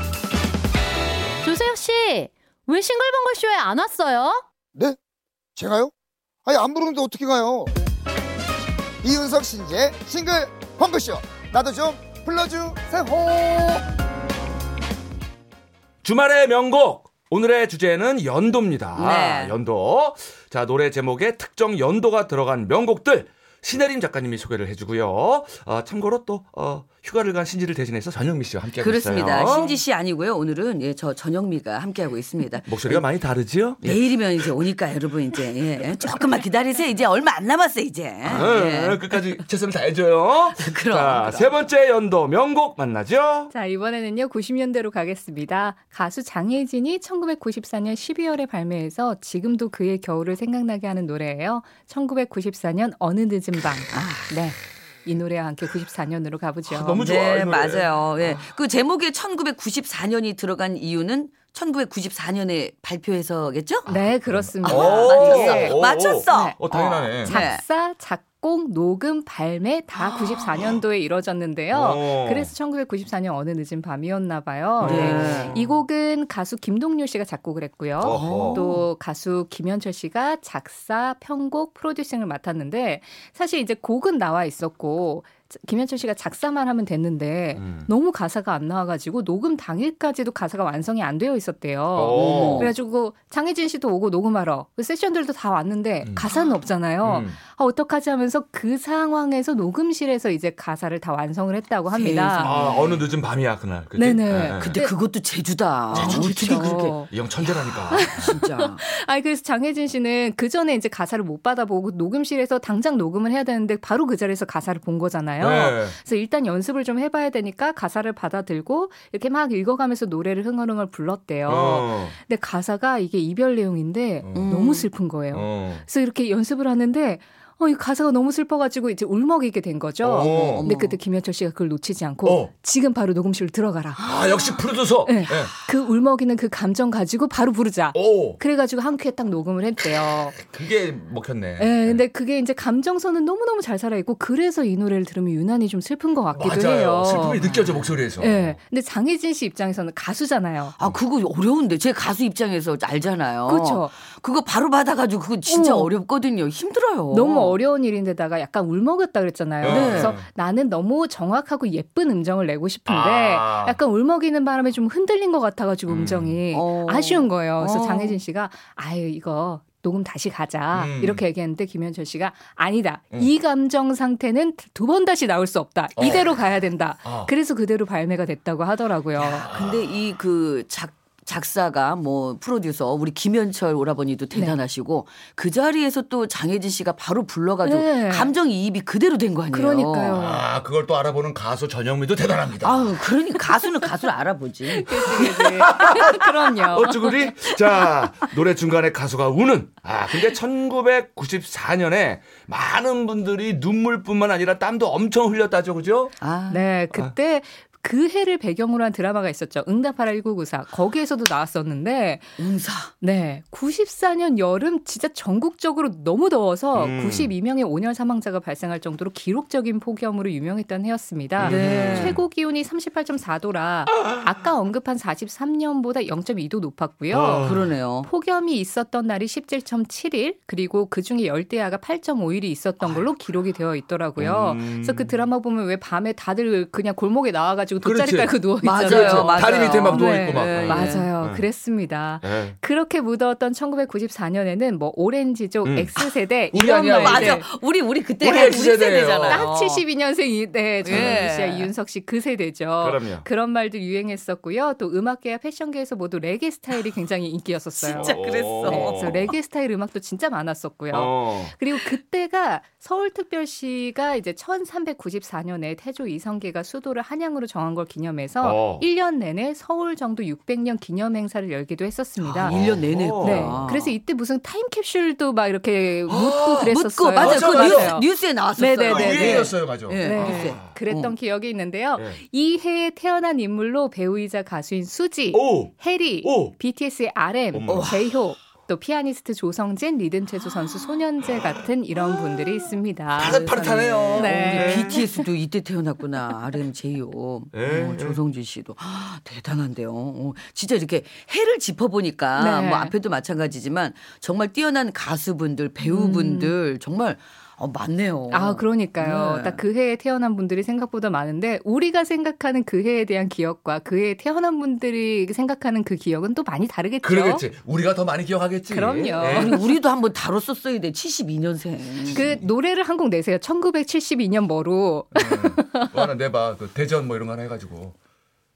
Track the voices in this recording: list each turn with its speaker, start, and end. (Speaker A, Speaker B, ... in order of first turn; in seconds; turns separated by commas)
Speaker A: 1.4-4.4, Speaker B: 5.6-5.9, Speaker B: 6.5-7.7, Speaker B: 9.0-13.8, Speaker C: 16.0-29.8, Speaker D: 18.9-19.6, Speaker D: 28.8-33.0, Speaker C: 32.7-34.5, Speaker D: 33.8-39.4, Speaker C: 38.2-43.5, Speaker D: 40.6-41.6, Speaker E: 43.5-57.1, Speaker D: 53.9-54.3, Speaker C: 56.7-58.5, Speaker D: 57.0-63.9, Speaker E: 63.9-66.6, Speaker C: 63.9-67.4, Speaker D: 64.7-67.6, Speaker E: 67.2-102.6, Speaker C: 71.7-72.5, Speaker C: 74.8-75.7, Speaker D: 74.8-75.6, Speaker C: 78.0-78.7, Speaker D: 78.1-78.8, Speaker C: 87.6-87.9, Speaker C: 91.9-92.7, Speaker D: 92.1-92.7, Speaker C: 97.0-97.4, Speaker D: 101.9-103.0, Speaker C: 102.4-104.8, Speaker E: 104.0-105.0, Speaker D: 104.6-107.0, Speaker C: 105.9-108.4, Speaker E: 105.9-107.1, Speaker E: 107.9-134.0, Speaker D: 108.2-108.8, Speaker C: 115.4-116.0, Speaker C: 121.5-122.2, Speaker C: 124.2-124.5, Speaker D: 124.3-124.9, Speaker C: 125.3-125.8, Speaker C: 130.0-130.7, Speaker D: 130.2-131.0, Speaker C: 132.2-132.5, Speaker D: 134.0-134.5, Speaker C: 134.0-135.5, Speaker E: 135.1-140.4, Speaker C: 137.9-138.4, Speaker C: 140.3-142.0, Speaker E: 141.6-147.4, Speaker C: 146.3-148.6, Speaker D: 147.4-147.9, Speaker E: 148.2-150.7, Speaker D: 150.8-157.6, Speaker E: 153.5-153.9, Speaker E: 155.5-155.9, Speaker E: 157.1-179.5, Speaker C: 159.6-160.3, Speaker D: 159.7-160.2, Speaker C: 162.9-163.8, Speaker C: 165.9-166.4, Speaker D: 166.5-168.2, Speaker C: 170.7-171.2, Speaker C: 176.0-176.4, Speaker C: 177.0-177.3, Speaker D: 179.2-190.2, Speaker C: 179.3-179.9, Speaker E: 187.6-188.3, Speaker E: 189.5-190.4, Speaker C: 190.1-193.0, Speaker D: 192.6-195.6, Speaker E: 194.7-197.1, Speaker C: 195.5-206.1, Speaker D: 206.2-206.7, Speaker E: 206.5-212.3, Speaker D: 212.4-212.9, Speaker E: 213.0-227.5, Speaker C: 216.8-217.3, Speaker C: 221.4-222.2, Speaker D: 221.4-222.2, Speaker C: 227.1-227.7, Speaker D: 227.4-228.1, Speaker E: 228.0-247.5, Speaker C: 234.2-235.1, Speaker C: 237.8-241.4, Speaker D: 238.6-241.1, Speaker C: 242.2-242.6, Speaker C: 245.6-245.9, Speaker C: 246.5-247.4, Speaker D: 247.0-249.8, Speaker C: 248.2-249.4, Speaker E: 248.3-248.7, Speaker E: 249.3-272.6, Speaker D: 250.8-251.7, Speaker C: 250.9-251.3, Speaker C: 252.8-253.3, Speaker D: 257.8-259.2, Speaker C: 257.9-259.3, Speaker C: 260.9-261.5, Speaker C: 268.4-268.9, Speaker C: 272.2-273.8, Speaker D: 272.4-273.9, Speaker E: 273.2-293.5, Speaker C: 276.1-278.0, Speaker D: 276.7-281.1, Speaker C: 278.9-280.7, Speaker C: 285.3-286.5, Speaker C: 287.5-288.0, Speaker D: 287.7-288.0, Speaker C: 293.1-295.0, Speaker D: 293.2-309.6, Speaker E: 294.2-295.3, Speaker C: 297.5-298.2, Speaker E: 302.4-302.9, Speaker E: 305.9-306.6, Speaker E: 308.3-317.5, Speaker C: 317.0-319.6, Speaker E: 318.7-319.6, Speaker D: 319.2-322.3, Speaker C: 322.1-322.4, Speaker E: 322.1-326.0, Speaker C: 325.1-327.9